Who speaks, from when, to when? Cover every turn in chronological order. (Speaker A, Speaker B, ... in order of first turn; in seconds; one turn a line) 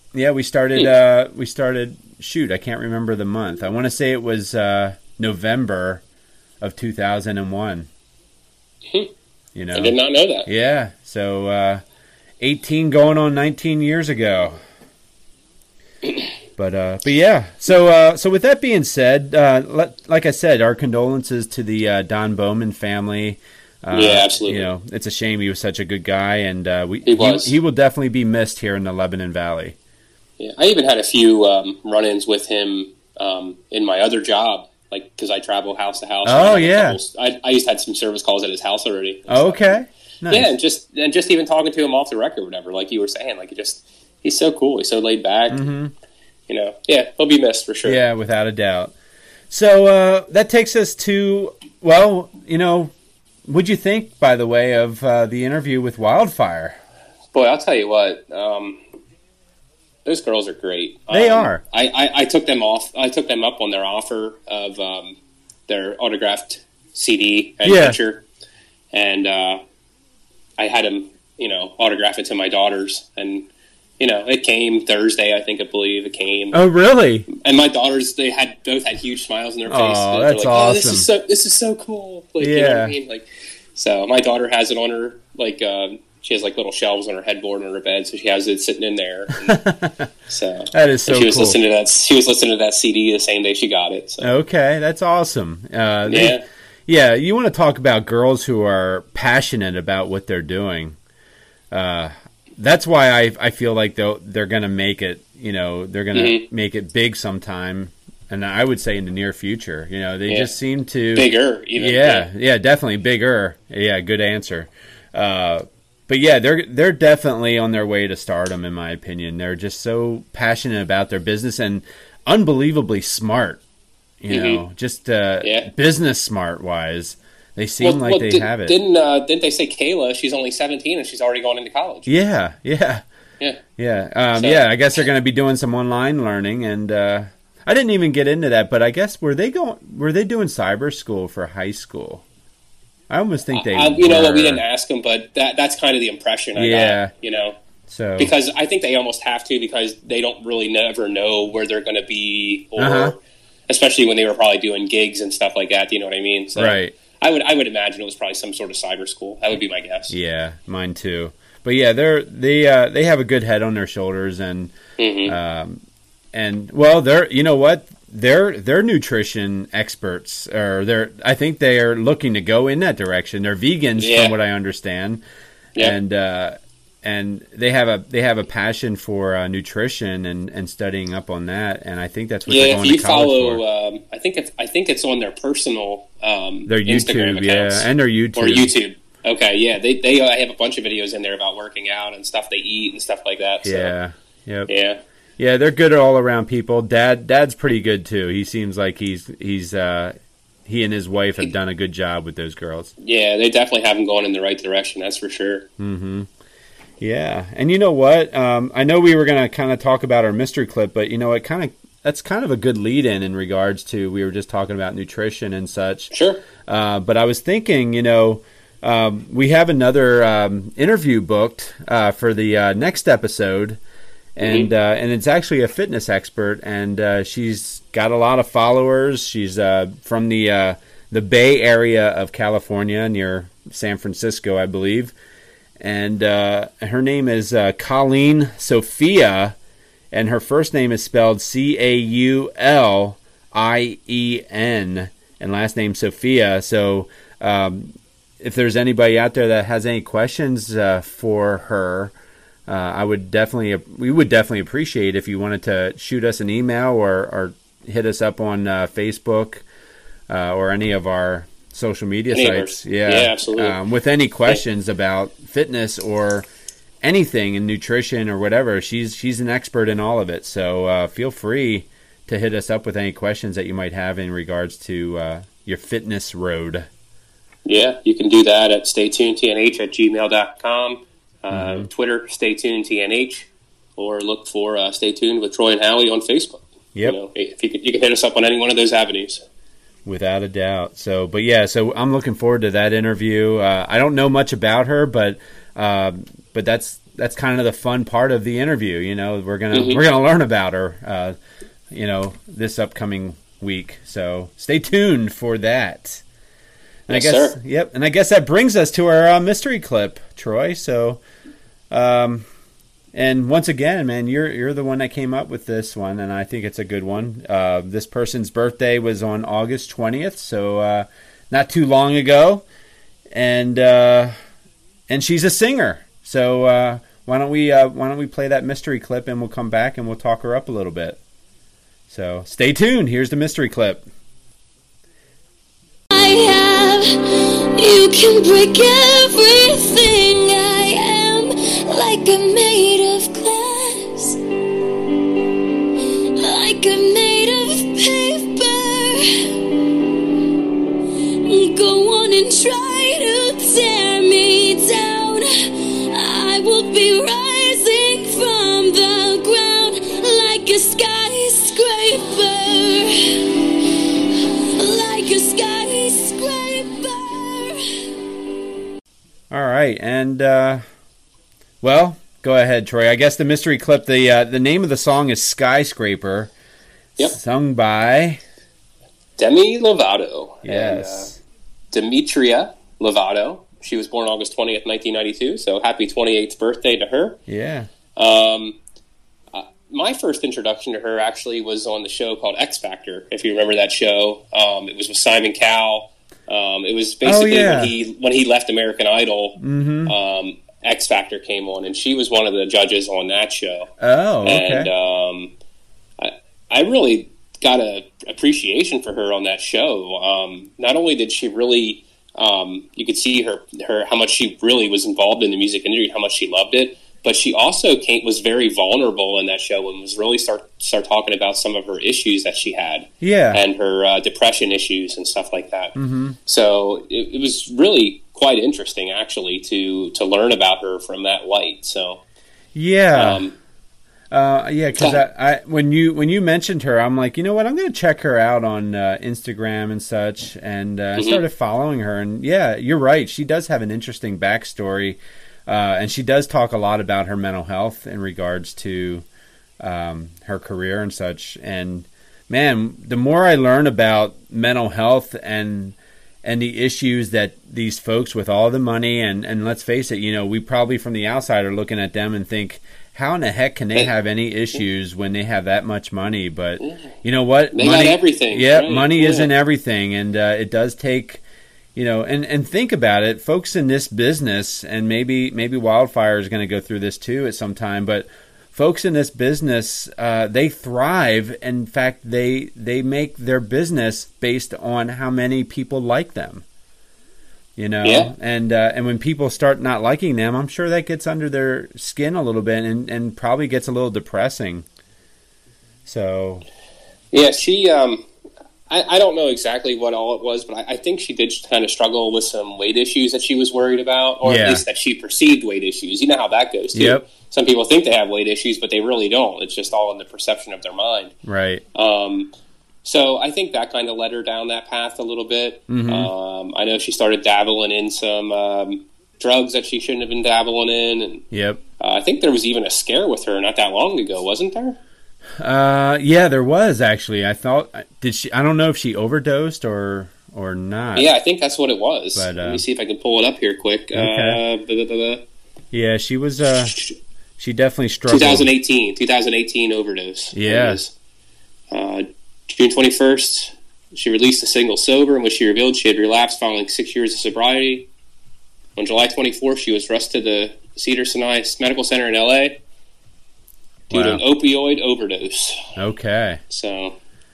Speaker A: 0.1-6.0
Speaker A: 6.6-7.9
Speaker A: 9.5-11.8
Speaker B: 9.7-10.5
Speaker A: 12.4-14.6
Speaker A: 16.6-29.8
Speaker B: 23.9-24.7
Speaker B: 27.0-27.5
Speaker B: 30.4-39.8
Speaker A: 36.2-37.0
Speaker A: 39.3-40.5
Speaker B: 40.3-45.6
Speaker A: 45.5-45.9
Speaker B: 46.5-48.0
Speaker A: 47.8-48.9
Speaker A: 49.5-52.9
Speaker A: 53.5-56.8
Speaker B: 57.3-58.8
Speaker B: 60.0-68.2
Speaker A: 61.1-61.6
Speaker A: 67.6-68.0
Speaker B: 68.9-69.6
Speaker B: 70.6-73.5
Speaker B: 74.0-76.6
Speaker A: 76.5-77.3
Speaker B: 77.3-89.6
Speaker A: 79.7-81.1
Speaker A: 82.4-82.9
Speaker A: 89.4-90.1
Speaker B: 90.3-94.3
Speaker A: 90.7-91.6
Speaker A: 94.2-101.0
Speaker B: 96.0-96.4
Speaker A: 101.7-123.6
Speaker B: 106.1-106.4
Speaker B: 111.1-112.3
Speaker A: 124.2-128.8
Speaker B: 124.3-124.6
Speaker B: 125.4-125.7
Speaker B: 127.8-132.1
Speaker A: 132.1-133.0
Speaker A: 133.8-142.2
Speaker B: 134.3-134.6
Speaker A: 143.1-144.6
Speaker B: 143.5-147.6
Speaker A: 146.5-147.1
Speaker A: 147.9-148.3
Speaker B: 148.2-153.2
Speaker A: 152.8-153.2
Speaker B: 153.7-160.1
Speaker A: 156.6-156.9
Speaker A: 160.1-164.7
Speaker B: 165.0-165.3
Speaker A: 165.2-165.8
Speaker A: 166.3-175.2
Speaker B: 174.0-174.3
Speaker A: 175.8-183.6
Speaker B: 182.5-193.9
Speaker A: 186.7-188.7
Speaker A: 193.6-194.7
Speaker B: 194.7-195.0
Speaker A: 195.4-200.1
Speaker A: 200.7-202.9
Speaker B: 203.0-205.7
Speaker A: 205.8-206.3
Speaker A: 207.0-223.8
Speaker B: 216.1-216.4
Speaker A: 224.3-235.1
Speaker B: 224.4-224.7
Speaker A: 235.8-239.6
Speaker A: 240.1-252.1
Speaker A: 252.7-259.6
Speaker A: 260.3-266.4
Speaker B: 262.3-263.8
Speaker A: 267.0-276.9
Speaker B: 277.6-289.4
Speaker A: 281.5-281.9
Speaker A: 290.1-301.3
Speaker B: 299.7-300.0
Speaker A: 301.9-306.2
Speaker A: 307.1-311.2
Speaker B: 307.1-307.6
Speaker A: 311.9-312.4
Speaker A: 313.1-322.6
Speaker A: 323.3-324.3
Speaker A: 325.1-331.2
Speaker A: 332.1-334.0
Speaker C: 336.1-344.4
Speaker C: 346.3-349.9
Speaker C: 351.4-363.9
Speaker C: 364.8-368.0
Speaker A: 369.5-370.8
Speaker A: 371.8-376.5
Speaker A: 377.2-378.4
Speaker B: 379.4-381.3
Speaker A: 380.6-381.4
Speaker B: 381.9-387.4
Speaker A: 387.5-387.9
Speaker B: 388.1-388.8
Speaker B: 389.5-403.9
Speaker A: 397.2-397.9
Speaker A: 399.6-400.1
Speaker A: 404.0-404.9
Speaker B: 404.4-405.5
Speaker B: 406.2-432.2
Speaker A: 423.2-423.6
Speaker A: 425.9-426.4
Speaker A: 432.7-433.5
Speaker B: 433.1-433.6
Speaker A: 434.3-449.2
Speaker B: 434.9-435.2
Speaker B: 441.1-441.4
Speaker A: 449.8-471.4
Speaker B: 466.8-467.1
Speaker B: 467.7-469.5
Speaker A: 471.9-486.6
Speaker A: 487.8-494.8
Speaker B: 488.0-488.3
Speaker A: 496.1-496.6
Speaker B: 497.3-498.2
Speaker B: 498.9-511.3
Speaker A: 504.4-504.8
Speaker A: 506.9-507.2
Speaker A: 511.4-511.8
Speaker B: 511.9-512.5
Speaker B: 513.0-521.4
Speaker A: 515.9-516.3
Speaker A: 521.5-521.8
Speaker B: 522.0-525.0
Speaker A: 525.6-531.3
Speaker B: 531.1-535.4
Speaker A: 532.3-532.8
Speaker A: 534.1-534.6
Speaker A: 535.9-537.0
Speaker B: 536.8-537.1
Speaker A: 537.6-538.7
Speaker B: 538.3-541.1
Speaker A: 540.5-541.0
Speaker B: 541.9-548.1
Speaker B: 549.0-552.8
Speaker A: 554.1-554.4
Speaker B: 554.1-555.9
Speaker A: 556.0-556.6
Speaker B: 556.7-557.2